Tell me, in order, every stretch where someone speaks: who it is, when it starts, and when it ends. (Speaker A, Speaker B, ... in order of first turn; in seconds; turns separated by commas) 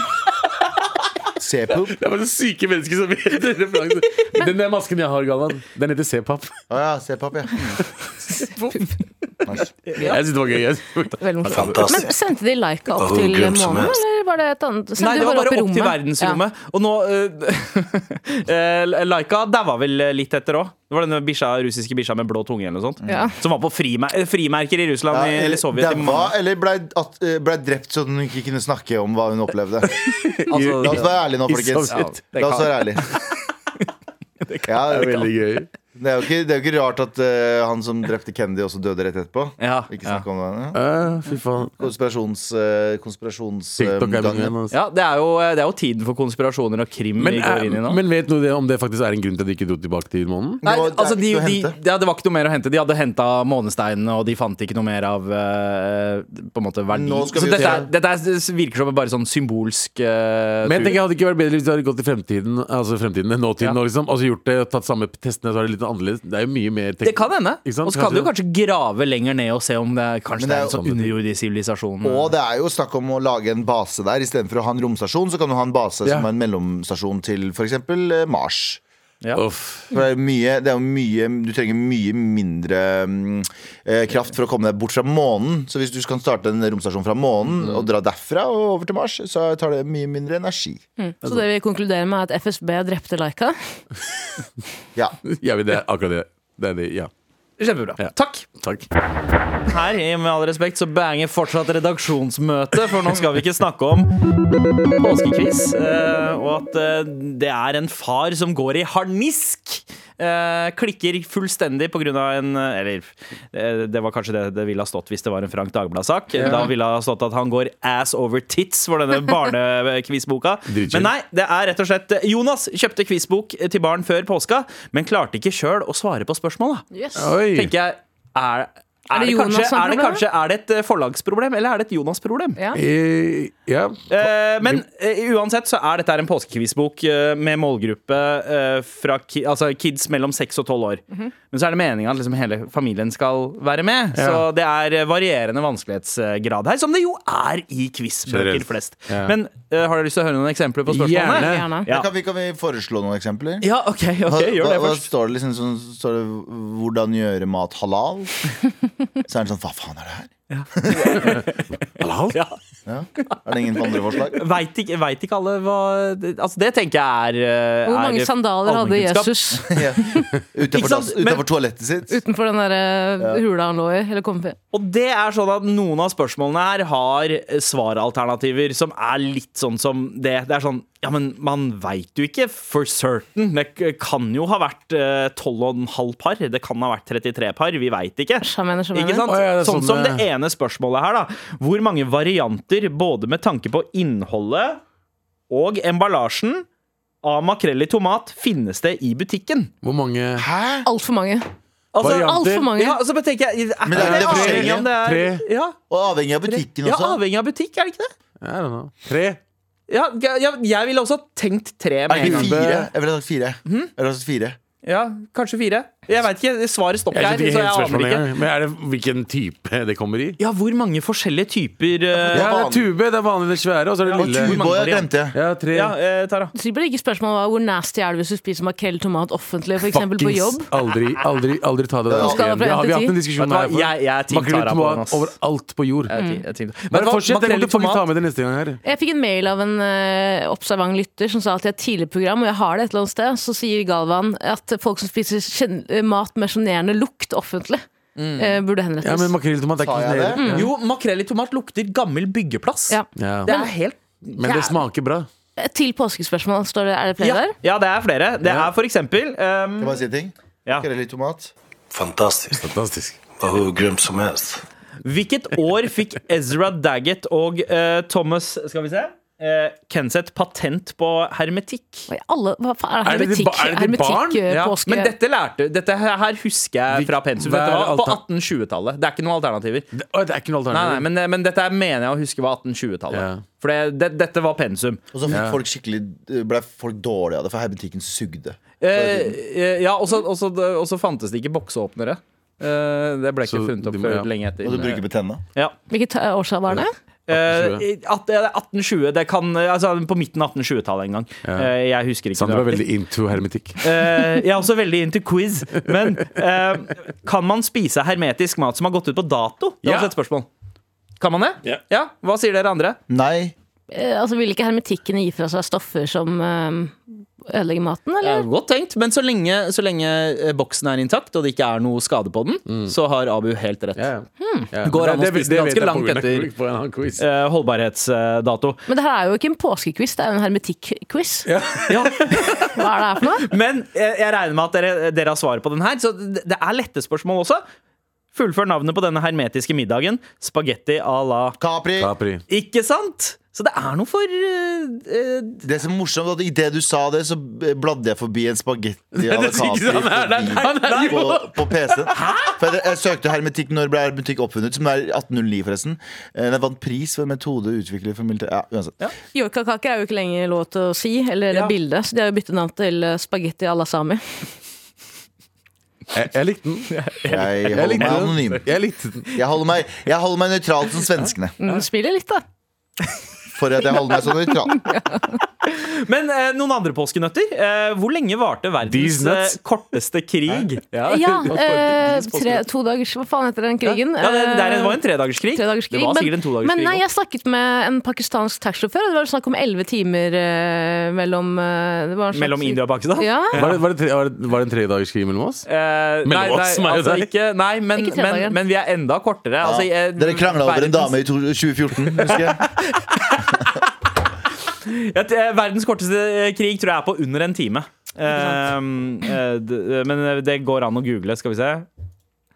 Speaker A: 1.4-1.9, Speaker B: 1.9-6.6, Speaker A: 6.7-7.7, Speaker C: 9.8-10.2, Speaker B: 10.0-11.9, Speaker D: 11.2-16.4, Speaker E: 11.5-12.1, Speaker E: 13.0-13.9, Speaker C: 15.0-26.3, Speaker A: 23.0-23.3, Speaker D: 23.1-23.3, Speaker A: 25.1-30.0, Speaker B: 30.0-32.2, Speaker C: 30.5-31.1, Speaker A: 30.8-33.1, Speaker C: 31.9-33.2, Speaker C: 34.5-35.3, Speaker A: 34.7-35.2, Speaker B: 34.9-35.7, Speaker A: 36.0-40.8, Speaker C: 39.6-40.2, Speaker B: 40.7-41.7, Speaker A: 41.8-44.5, Speaker B: 43.8-44.8, Speaker C: 44.7-48.0, Speaker B: 47.2-50.6, Speaker A: 50.6-51.8, Speaker C: 50.6-61.0, Speaker A: 56.9-57.9, Speaker B: 60.6-68.3, Speaker C: 67.0-72.3, Speaker A: 70.4-70.8, Speaker B: 70.7-71.1, Speaker A: 72.0-78.8, Speaker B: 79.3-79.8, Speaker A: 79.9-90.8, Speaker D: 91.0-93.5, Speaker B: 95.3-97.1, Speaker C: 97.6-98.5, Speaker B: 98.0-98.8, Speaker C: 99.7-104.1, Speaker C: 105.0-126.8, Speaker B: 116.3-116.7, Speaker B: 120.7-121.1, Speaker D: 126.9-127.3, Speaker B: 127.2-127.8, Speaker C: 127.5-132.6, Speaker D: 129.1-130.2, Speaker B: 132.7-134.8, Speaker C: 134.1-152.1, Speaker B: 144.1-144.4, Speaker B: 148.3-149.3, Speaker B: 150.9-151.8, Speaker D: 151.3-151.8, Speaker A: 151.9-153.7, Speaker C: 153.6-155.1, Speaker A: 154.2-158.3, Speaker A: 159.3-161.3, Speaker C: 160.5-161.6, Speaker B: 162.0-162.4, Speaker A: 162.9-164.4, Speaker C: 163.3-169.3, Speaker D: 167.8-170.2, Speaker A: 169.6-172.2, Speaker C: 170.7-171.4, Speaker D: 172.1-174.6, Speaker C: 174.7-194.8, Speaker D: 188.4-189.4, Speaker B: 189.3-190.2, Speaker C: 195.5-196.7, Speaker C: 197.2-199.7, Speaker B: 199.8-200.4, Speaker A: 200.4-200.9, Speaker D: 200.9-201.4, Speaker C: 201.9-205.8, Speaker B: 202.0-202.7, Speaker D: 202.1-203.0, Speaker A: 203.9-204.9, Speaker B: 203.9-205.4, Speaker A: 205.9-207.2, Speaker C: 206.5-208.1, Speaker B: 208.4-209.4, Speaker C: 209.9-212.8, Speaker B: 212.1-212.8, Speaker A: 212.1-214.6, Speaker C: 213.7-213.9, Speaker C: 214.8-218.3, Speaker B: 217.1-220.4, Speaker C: 220.4-222.5, Speaker A: 222.2-222.9, Speaker B: 222.3-224.7, Speaker C: 224.0-225.1, Speaker A: 224.1-225.4, Speaker B: 225.3-225.9, Speaker C: 225.7-226.5, Speaker D: 226.5-230.7, Speaker B: 229.8-236.1, Speaker A: 232.1-232.5, Speaker D: 232.1-233.2, Speaker C: 233.4-235.3, Speaker C: 236.1-238.1, Speaker D: 236.1-236.4, Speaker B: 236.9-238.8, Speaker D: 238.8-247.8, Speaker C: 248.2-248.6, Speaker D: 248.4-249.3, Speaker B: 249.0-250.7, Speaker A: 249.8-250.4, Speaker D: 250.4-250.7, Speaker C: 250.5-254.7, Speaker D: 252.9-253.7, Speaker B: 253.2-253.5, Speaker B: 254.4-255.3, Speaker D: 255.6-257.5, Speaker C: 257.2-260.0, Speaker B: 258.4-258.7, Speaker A: 259.8-261.5, Speaker E: 261.9-262.7, Speaker B: 262.6-263.2, Speaker E: 263.4-264.6, Speaker C: 265.0-272.1, Speaker D: 272.1-275.1, Speaker B: 273.0-274.4, Speaker C: 274.5-279.9, Speaker B: 276.9-278.2, Speaker B: 279.9-281.0, Speaker C: 280.7-285.0, Speaker B: 283.1-283.4, Speaker A: 285.1-289.4, Speaker B: 285.3-285.6, Speaker C: 288.8-295.0, Speaker B: 293.4-294.3, Speaker A: 294.6-295.4, Speaker D: 295.9-296.9, Speaker B: 296.8-297.8, Speaker C: 297.3-302.8, Speaker B: 301.4-301.7, Speaker B: 302.3-303.9, Speaker C: 303.8-310.5, Speaker B: 309.8-310.1, Speaker C: 311.2-313.0, Speaker A: 313.1-313.5, Speaker D: 313.9-318.4, Speaker C: 318.2-324.0, Speaker B: 322.7-322.9, Speaker B: 323.9-327.2, Speaker D: 324.4-324.7, Speaker C: 324.8-326.5, Speaker C: 327.2-328.8, Speaker D: 328.9-331.5, Speaker B: 331.4-332.1, Speaker C: 331.9-332.8, Speaker D: 332.7-333.5, Speaker C: 333.4-337.6, Speaker C: 338.3-341.6, Speaker A: 341.6-342.1, Speaker B: 342.0-342.4, Speaker C: 342.5-345.6, Speaker A: 345.6-358.9, Speaker B: 349.1-351.6, Speaker C: 350.6-351.3, Speaker C: 352.2-352.5, Speaker D: 359.3-364.4, Speaker B: 366.1-366.9, Speaker C: 366.9-368.6, Speaker A: 367.3-368.6, Speaker B: 367.7-369.3, Speaker A: 369.4-371.5, Speaker D: 371.6-372.4, Speaker A: 373.5-374.9, Speaker D: 374.7-375.4, Speaker C: 375.9-382.6, Speaker B: 378.9-379.6, Speaker D: 381.1-385.0, Speaker B: 381.5-381.9, Speaker C: 383.8-387.0, Speaker D: 385.5-393.6, Speaker C: 392.3-393.8, Speaker B: 393.5-395.6, Speaker C: 395.7-401.2, Speaker B: 396.2-397.3, Speaker D: 397.9-398.6, Speaker A: 399.6-402.7, Speaker C: 402.8-403.8, Speaker C: 404.9-411.9, Speaker D: 408.3-408.6